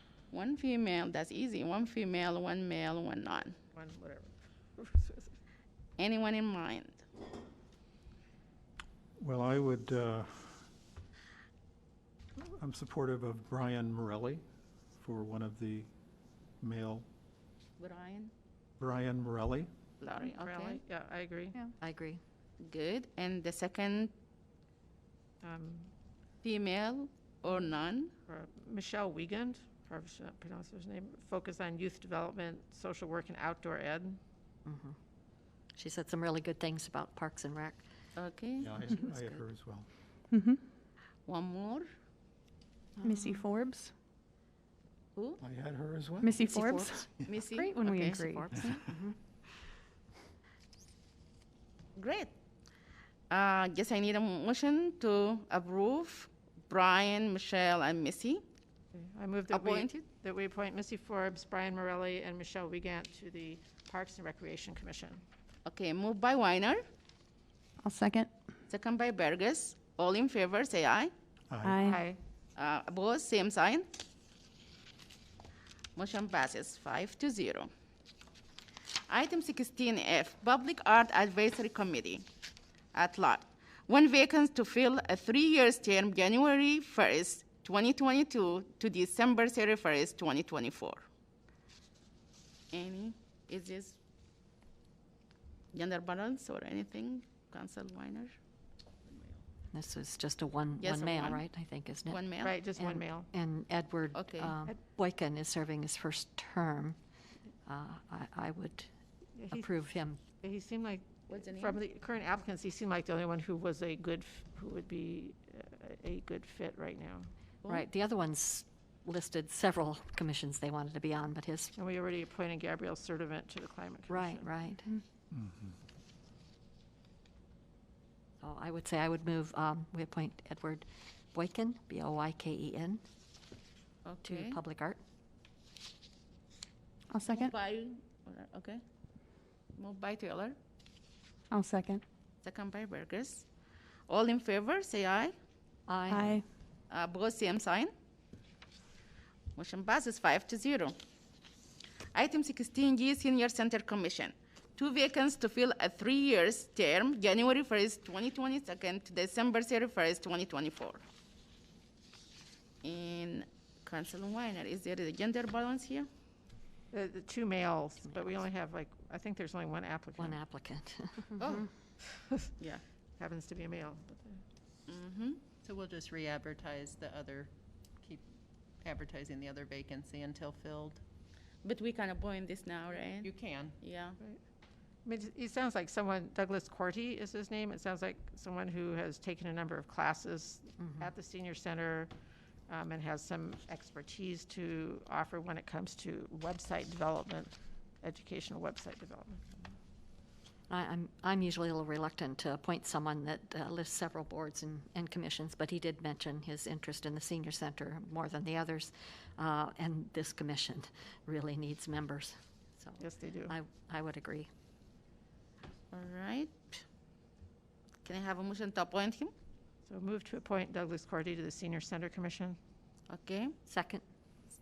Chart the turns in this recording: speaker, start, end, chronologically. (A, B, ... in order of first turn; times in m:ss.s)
0:00.3-0:03.5 A
0:03.7-0:05.4 B
0:06.0-0:07.0 A
0:09.2-0:10.6 C
0:12.4-0:14.4 C
0:15.0-0:15.9 C
0:16.6-0:17.1 C
0:17.8-0:18.3 A
0:18.8-0:19.7 C
0:20.0-0:20.8 A
0:20.2-0:21.6 B
0:21.8-0:22.2 D
0:22.6-0:24.1 A
0:25.4-0:25.9 B
0:26.4-0:28.1 A
0:28.3-0:34.2 B
0:34.6-0:35.0 D
0:35.8-0:37.8 D
0:38.2-0:38.7 A
0:38.6-0:39.9 C
0:38.9-0:39.4 D
0:40.3-0:40.6 E
0:41.3-0:41.9 A
0:43.0-0:43.4 D
0:43.1-0:43.9 E
0:45.2-0:45.4 A
0:45.4-0:46.4 C
0:46.3-0:47.0 E
0:46.4-0:47.1 D
0:47.2-0:48.9 A
0:47.6-0:48.5 E
0:48.7-0:49.2 D
0:52.0-0:52.3 A
0:53.3-0:58.4 A
0:58.9-1:05.2 B
0:59.5-1:00.0 A
1:05.7-1:06.8 A
1:07.8-1:08.3 E
1:08.7-1:11.1 A
1:11.5-1:11.9 C
1:11.6-1:12.0 E
1:11.8-1:12.2 B
1:12.6-1:13.9 A
1:16.0-1:17.7 A
1:19.1-1:22.2 A
1:22.9-1:31.0 A
1:32.7-1:34.0 A
1:35.7-1:38.4 A
1:39.7-1:47.0 D
1:40.8-1:41.4 A
1:42.1-1:42.5 A
1:42.4-1:43.3 B
1:44.1-1:44.6 A
1:47.7-1:48.9 D
1:49.4-1:49.7 B
1:49.5-1:50.2 D
1:50.4-1:57.3 B
1:51.3-1:51.8 A
1:57.7-2:01.7 D
2:01.8-2:04.5 B
2:04.1-2:04.9 D
2:05.3-2:05.8 C
2:08.4-2:13.0 D
2:14.0-2:14.6 A
2:14.2-2:15.0 D
2:17.1-2:17.5 E
2:17.3-2:18.8 A
2:19.8-2:20.6 A
2:21.5-2:22.0 E
2:22.4-2:23.4 A
2:24.1-2:25.3 A
2:25.9-2:26.4 D
2:26.1-2:26.4 E
2:26.9-2:27.9 A
2:29.6-2:31.0 A
2:32.2-2:41.0 A
2:42.8-2:46.1 A
2:46.9-2:50.4 B
2:48.0-2:48.4 D
2:50.2-2:51.4 D
2:51.4-2:51.7 A
2:52.2-2:52.5 B
2:53.2-2:54.4 B
2:54.9-2:55.4 A
2:55.6-2:58.3 F
2:58.8-3:01.0 F
3:01.6-3:04.2 A
3:03.2-3:03.8 F
3:05.0-3:12.1 B
3:10.8-3:11.1 D
3:12.7-3:19.5 B
3:20.7-3:34.5 D
3:33.0-3:33.5 B
3:35.9-3:36.8 A
3:38.0-3:39.3 A
3:39.9-3:42.6 B
3:43.1-3:43.5 A
3:43.7-3:44.0 D